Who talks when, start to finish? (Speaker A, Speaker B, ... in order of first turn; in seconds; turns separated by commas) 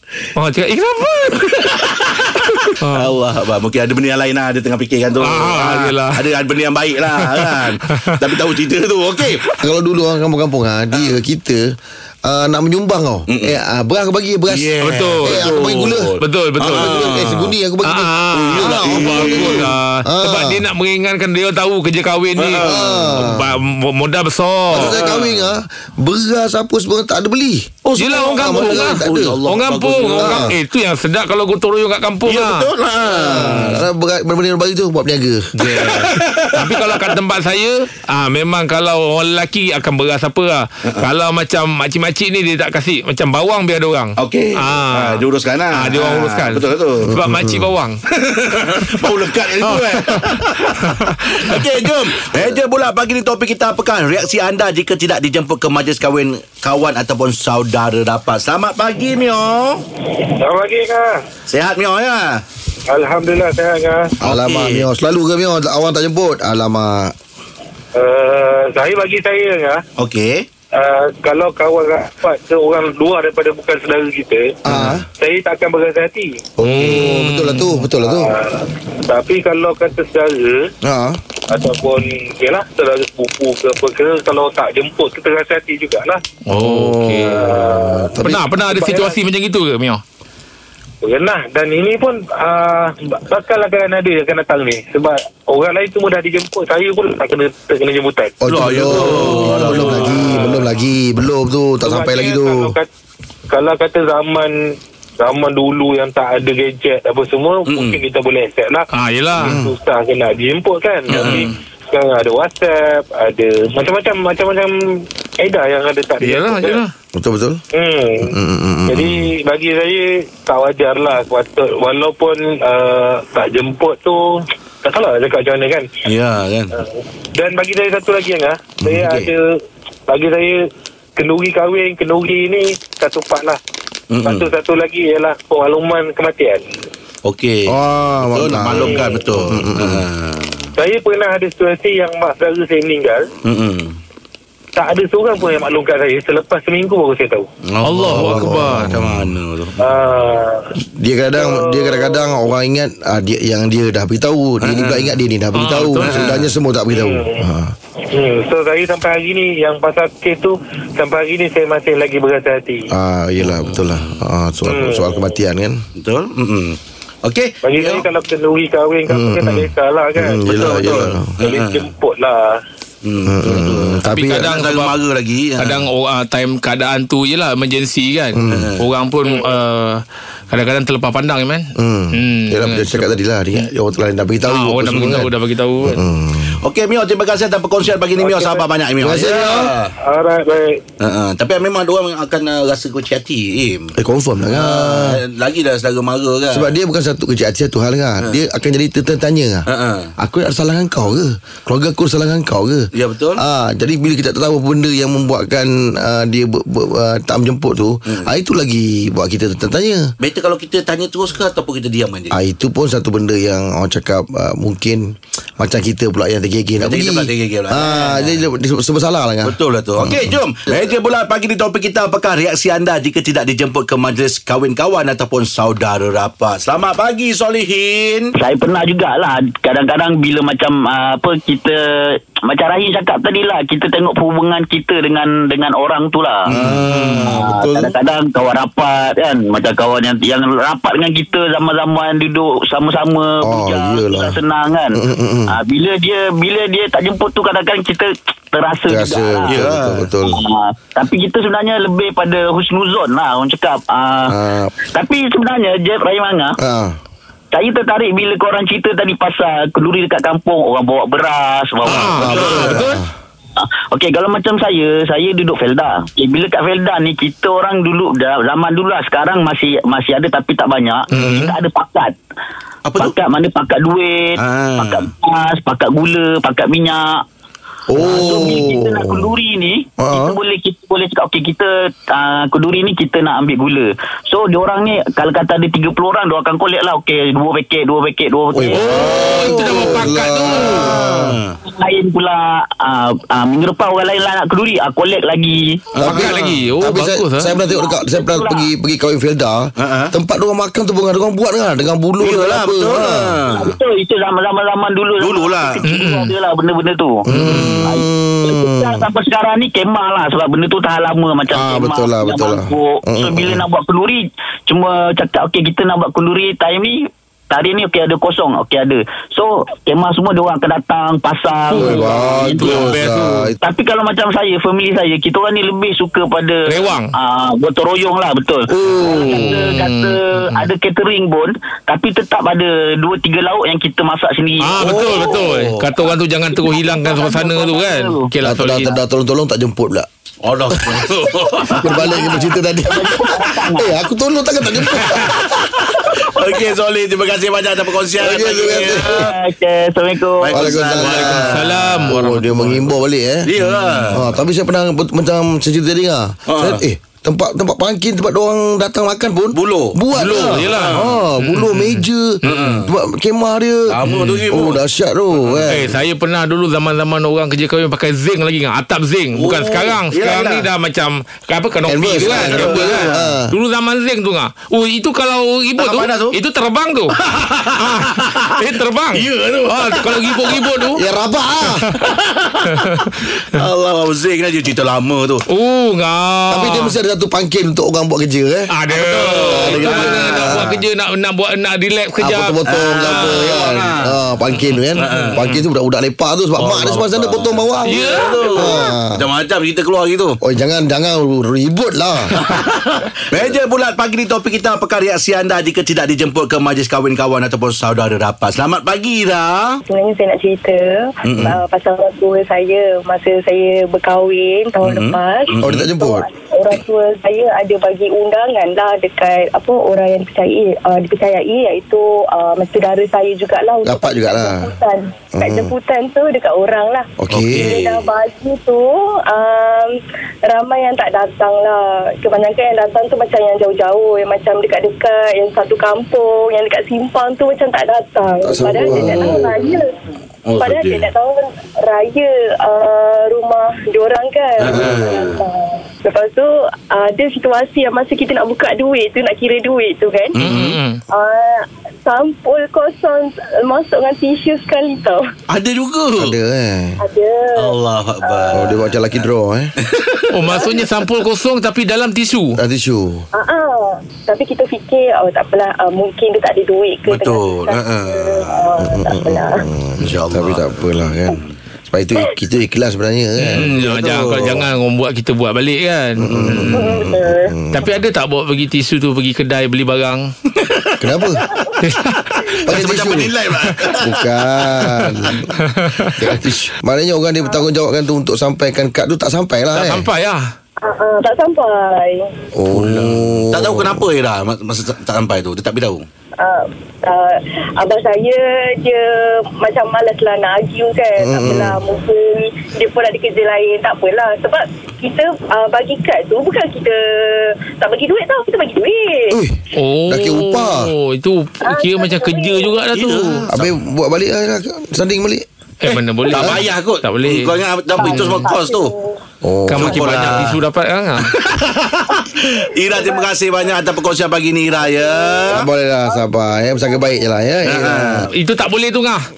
Speaker A: 0.3-3.1, Speaker B: 1.4-9.5, Speaker A: 5.2-6.2, Speaker A: 7.1-8.1, Speaker C: 9.6-11.6, Speaker B: 10.9-11.2, Speaker C: 12.2-20.6, Speaker B: 13.3-13.6, Speaker B: 14.5-17.6, Speaker A: 14.8-15.5, Speaker A: 16.2-17.1, Speaker A: 17.8-25.0, Speaker B: 18.3-19.7, Speaker B: 22.4-23.2, Speaker C: 22.6-23.5, Speaker C: 24.7-29.4, Speaker B: 24.7-25.5, Speaker B: 27.9-30.5, Speaker A: 28.0-33.8, Speaker C: 30.1-30.5, Speaker B: 32.2-33.9, Speaker C: 33.2-35.5, Speaker A: 35.5-48.0, Speaker B: 35.7-37.1, Speaker B: 44.2-47.1, Speaker C: 47.1-47.7, Speaker B: 48.2-59.8, Speaker A: 49.6-51.6, Speaker D: 60.4-61.2, Speaker B: 61.5-62.4, Speaker D: 62.9-64.1, Speaker C: 64.2-67.1, Speaker B: 64.2-64.9, Speaker D: 67.9-69.8, Speaker B: 70.0-70.4, Speaker D: 70.7-74.5, Speaker C: 74.7-75.0, Speaker B: 74.7-75.0, Speaker D: 75.2-76.4, Speaker C: 76.6-78.3, Speaker A: 76.6-77.9, Speaker D: 78.1-80.7, Speaker C: 80.8-81.2, Speaker D: 81.5-86.2, Speaker A: 86.5-87.6, Speaker C: 86.5-88.4, Speaker D: 87.3-88.1, Speaker A: 88.1-90.0, Speaker D: 88.7-89.2, Speaker D: 91.0-98.3, Speaker C: 98.4-102.8, Speaker B: 98.4-100.4, Speaker A: 99.0-100.4, Speaker D: 100.0-100.6, Speaker D: 101.8-102.9, Speaker D: 103.5-108.8, Speaker B: 107.6-108.0, Speaker A: 108.9-109.6, Speaker D: 109.4-116.8, Speaker C: 109.4-109.7, Speaker B: 111.1-111.6, Speaker A: 116.2-116.9, Speaker C: 117.1-117.6, Speaker D: 117.7-118.3, Speaker C: 118.3-119.3, Speaker D: 118.9-125.9, Speaker B: 126.0-126.7, Speaker D: 127.3-129.5, Speaker C: 128.8-129.3, Speaker D: 130.1-130.6, Speaker D: 131.2-133.6, Speaker B: 134.1-134.5, Speaker D: 134.2-136.6, Speaker B: 137.2-140.7, Speaker C: 137.7-140.0, Speaker D: 138.8-139.2, Speaker D: 140.8-143.2, Speaker B: 143.4-144.0, Speaker D: 144.8-147.5, Speaker B: 147.6-149.9, Speaker A: 147.8-149.1, Speaker C: 148.1-149.1, Speaker D: 149.8-150.6, Speaker C: 150.8-157.7, Speaker D: 151.4-152.3, Speaker B: 154.6-155.2, Speaker A: 155.5-156.2, Speaker B: 156.0-156.5, Speaker D: 156.9-157.4, Speaker D: 158.1-162.8, Speaker C: 162.9-165.8, Speaker B: 163.4-164.3, Speaker D: 164.7-165.3, Speaker B: 166.0-168.1, Speaker D: 167.6-170.8, Speaker C: 169.1-171.3, Speaker B: 170.4-171.9, Speaker D: 171.4-172.6, Speaker B: 173.0-175.9, Speaker C: 173.2-174.3, Speaker A: 174.0-175.0, Speaker A: 175.6-183.2, Speaker C: 178.3-178.7, Speaker B: 178.5-178.8, Speaker C: 181.8-186.6, Speaker A: 184.4-186.0, Speaker B: 184.9-185.2, Speaker B: 186.5-189.9, Speaker D: 188.2-188.6, Speaker C: 189.0-189.7, Speaker D: 190.0-190.8, Speaker B: 191.0-193.9, Speaker C: 194.0-195.2, Speaker B: 194.5-196.7, Speaker C: 196.5-199.7, Speaker B: 199.7-200.1, Speaker C: 200.2-210.1, Speaker B: 202.9-203.4, Speaker B: 210.2-212.3, Speaker C: 212.3-215.0, Speaker C: 215.6-220.9, Speaker B: 216.8-218.4, Speaker B: 219.4-228.3, Speaker E: 228.4-236.6, Speaker B: 236.5-237.6, Speaker C: 236.5-237.9, Speaker E: 237.2-245.0, Speaker C: 243.4-244.4, Speaker C: 244.9-245.6, Speaker E: 245.5-249.7, Speaker C: 248.9-250.4, Speaker B: 249.4-250.1, Speaker E: 250.3-254.3, Speaker C: 254.3-254.7, Speaker E: 254.9-256.6, Speaker C: 256.6-257.0, Speaker E: 257.5-262.5, Speaker A: 261.9-263.0, Speaker B: 261.9-262.8, Speaker C: 262.1-263.1, Speaker E: 263.6-272.1, Speaker B: 271.1-271.5, Speaker A: 271.1-271.5, Speaker B: 272.8-273.2, Speaker E: 272.9-277.2, Speaker B: 274.4-275.1, Speaker C: 277.9-279.4, Speaker E: 277.9-288.8, Speaker C: 280.0-280.4, Speaker C: 288.5-291.4, Speaker B: 288.7-291.6, Speaker A: 288.7-291.0, Speaker E: 291.6-295.9, Speaker B: 295.9-296.7, Speaker C: 296.0-303.5, Speaker A: 296.0-297.5, Speaker E: 297.6-298.7, Speaker B: 299.8-300.1, Speaker B: 302.2-303.8, Speaker E: 303.5-307.2, Speaker B: 305.2-306.1, Speaker A: 305.8-306.3, Speaker C: 307.2-309.1, Speaker A: 307.3-307.9, Speaker B: 307.4-307.9, Speaker E: 307.8-317.0, Speaker C: 311.5-313.6, Speaker E: 317.5-322.6, Speaker A: 321.7-323.1, Speaker C: 321.7-323.5, Speaker B: 322.2-323.5, Speaker E: 323.6-335.3, Speaker A: 326.7-327.1, Speaker C: 328.7-329.8, Speaker A: 329.0-330.7, Speaker A: 334.6-338.9, Speaker B: 334.7-335.9, Speaker E: 336.5-338.3, Speaker C: 338.4-340.1, Speaker B: 340.4-342.4, Speaker C: 340.7-341.0, Speaker C: 341.6-345.3, Speaker E: 341.9-342.3, Speaker E: 342.9-343.9, Speaker B: 343.0-343.7, Speaker B: 344.8-349.4, Speaker C: 348.1-349.3, Speaker E: 349.0-350.6, Speaker B: 350.1-351.9, Speaker C: 350.5-353.5, Speaker A: 350.9-352.9, Speaker B: 353.4-354.4, Speaker A: 353.6-354.2, Speaker C: 354.1-365.9, Speaker B: 356.5-356.8, Speaker B: 359.5-361.2, Speaker A: 360.1-362.9, Speaker B: 362.4-362.9, Speaker B: 363.9-364.8, Speaker A: 364.0-364.4, Speaker B: 365.4-365.7, Speaker A: 365.6-377.2, Speaker B: 369.3-370.7, Speaker C: 371.9-373.5, Speaker B: 372.1-373.3, Speaker B: 375.8-376.4, Speaker B: 377.2-378.4, Speaker A: 377.8-381.0, Speaker B: 379.1-380.9, Speaker C: 380.9-381.9, Speaker B: 382.0-385.4, Speaker A: 382.7-383.1, Speaker A: 385.5-386.9, Speaker C: 386.5-388.7, Speaker A: 388.7-393.7, Speaker B: 388.9-390.8, Speaker C: 389.5-390.7, Speaker C: 392.2-399.1, Speaker B: 392.6-394.2, Speaker A: 394.6-395.6, Speaker B: 394.9-395.4, Speaker B: 396.6-400.4, Speaker A: 397.8-398.7, Speaker C: 400.4-402.4, Speaker B: 402.3-409.8, Speaker F: 409.9-429.9, Speaker B: 411.2-411.6, Speaker B: 414.8-415.9, Speaker C: 415.6-416.3, Speaker C: 423.8-424.7, Speaker C: 425.3-425.7, Speaker C: 427.2-427.6, Speaker B: 427.3-428.0, Speaker F: 430.5-439.9, Speaker C: 438.4-439.5, Speaker B: 440.4-441.1, Speaker F: 440.6-450.4, Speaker B: 444.6-445.4, Speaker C: 444.7-445.0, Speaker B: 450.3-450.8, Speaker A: 450.4-451.0, Speaker F: 451.1-455.2, Speaker B: 455.5-456.4, Speaker C: 456.1-457.0, Speaker F: 457.0-458.7, Speaker B: 457.6-459.2, Speaker C: 458.5-459.7, Speaker B: 459.8-461.1, Speaker A: 460.3-462.6, Speaker C: 462.5-463.2, Speaker F: 463.3-469.6, Speaker B: 467.1-468.7, Speaker C: 468.8-473.8, Speaker B: 470.0-471.6, Speaker A: 473.4-476.6, Speaker B: 473.5-474.7, Speaker C: 474.4-474.6, Speaker C: 476.2-477.9, Speaker B: 476.2-477.1, Speaker F: 476.7-477.5, Speaker A: 477.7-480.3, Speaker B: 480.5-481.1, Speaker C: 481.0-481.4, Speaker A: 481.8-482.4, Speaker B: 482.1-485.4, Speaker C: 482.6-483.3, Speaker C: 483.9-485.5, Speaker A: 485.6-486.3, Speaker C: 486.1-490.1, Speaker A: 489.7-490.4, Speaker F: 490.8-492.3, Speaker C: 492.5-494.1, Speaker A: 492.7-493.1, Speaker B: 492.8-496.1, Speaker F: 496.4-509.4, Speaker C: 501.2-501.8, Speaker C: 509.3-510.9, Speaker A: 509.7-513.5, Speaker F: 511.6-512.7, Speaker B: 512.9-513.8, Speaker C: 513.5-515.4, Speaker A: 515.8-518.5, Speaker B: 515.9-518.9, Speaker C: 516.4-516.6, Speaker F: 518.0-519.2, Speaker C: 519.4-520.4, Speaker A: 519.7-521.3, Speaker B: 519.7-520.6, Speaker B: 521.2-525.6, Speaker F: 522.9-523.2, Speaker F: 525.0-525.5, Speaker C: 525.5-528.3, Speaker B: 527.6-528.3, Speaker A: 528.3-529.2